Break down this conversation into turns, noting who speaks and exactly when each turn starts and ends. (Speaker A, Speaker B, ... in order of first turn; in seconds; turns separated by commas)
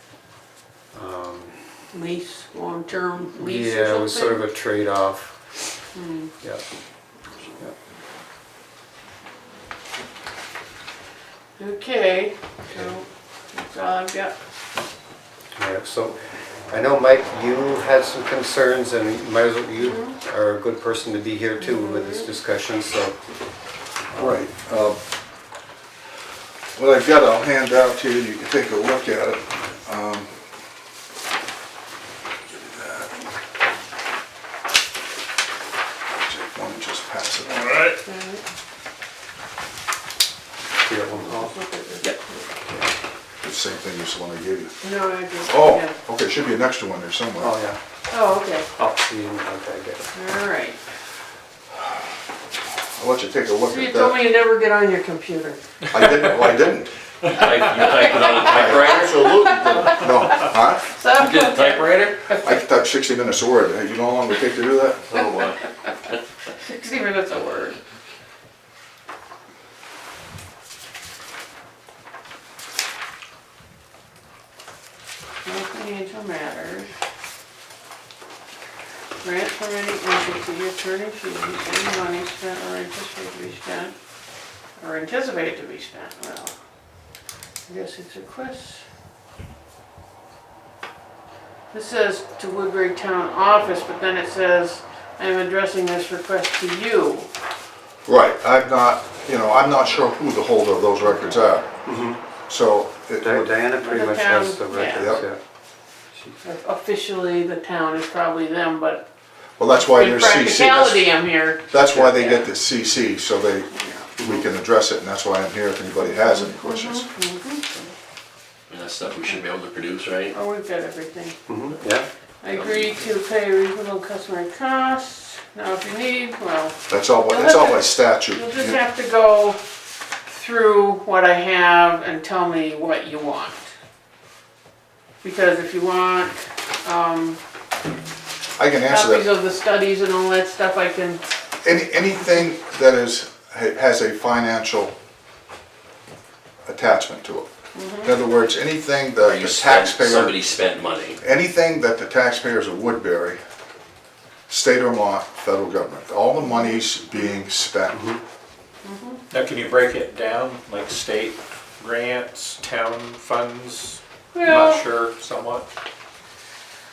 Speaker A: 0.9-1.6, Speaker B: 1.9-4.4, Speaker A: 3.4-5.3, Speaker B: 5.9-6.3, Speaker B: 11.6-14.3, Speaker A: 15.5-16.1, Speaker A: 16.7-23.1, Speaker B: 19.8-20.1, Speaker B: 21.6-22.3, Speaker C: 24.1-25.0, Speaker C: 26.8-30.3, Speaker C: 32.5-33.1, Speaker C: 36.2-37.8, Speaker B: 38.0-38.4, Speaker A: 40.8-41.5, Speaker B: 41.1-42.5, Speaker C: 43.4-44.7, Speaker B: 44.8-45.9, Speaker C: 45.5-47.5, Speaker A: 47.4-47.8, Speaker B: 48.1-48.7, Speaker A: 48.8-50.1, Speaker B: 50.1-50.8, Speaker C: 52.9-54.2, Speaker B: 53.6-55.6, Speaker C: 55.9-56.9, Speaker D: 57.2-57.5, Speaker E: 57.3-60.0, Speaker B: 57.4-62.5, Speaker C: 58.4-59.0, Speaker C: 59.9-60.9, Speaker E: 61.1-62.3, Speaker C: 62.4-65.2, Speaker E: 65.1-65.6, Speaker B: 65.2-65.7, Speaker B: 66.6-67.8, Speaker B: 75.4-76.9, Speaker B: 79.2-83.9, Speaker B: 84.8-86.5, Speaker B: 87.7-88.8, Speaker B: 91.7-97.3, Speaker C: 98.0-101.7, Speaker B: 101.2-101.4, Speaker A: 101.8-102.2, Speaker C: 102.5-103.5, Speaker A: 103.2-105.4, Speaker B: 103.8-105.2, Speaker C: 105.0-105.2, Speaker B: 106.4-109.0, Speaker C: 109.6-111.1, Speaker B: 109.8-112.4, Speaker C: 111.7-117.1, Speaker B: 113.7-114.1, Speaker B: 116.0-117.8, Speaker E: 118.7-120.3, Speaker B: 119.1-119.4, Speaker B: 120.3-121.4, Speaker A: 121.5-122.1, Speaker B: 122.4-129.6, Speaker C: 126.9-128.8, Speaker B: 130.2-133.7, Speaker B: 135.2-137.4, Speaker C: 138.6-139.3, Speaker B: 138.9-141.2, Speaker C: 141.6-144.9, Speaker C: 146.7-147.5, Speaker B: 147.7-148.2, Speaker C: 148.0-150.3, Speaker E: 149.2-151.2, Speaker C: 151.2-153.4, Speaker C: 154.5-158.2, Speaker A: 157.9-158.2, Speaker B: 158.8-159.2, Speaker D: 159.3-165.7, Speaker B: 164.3-164.8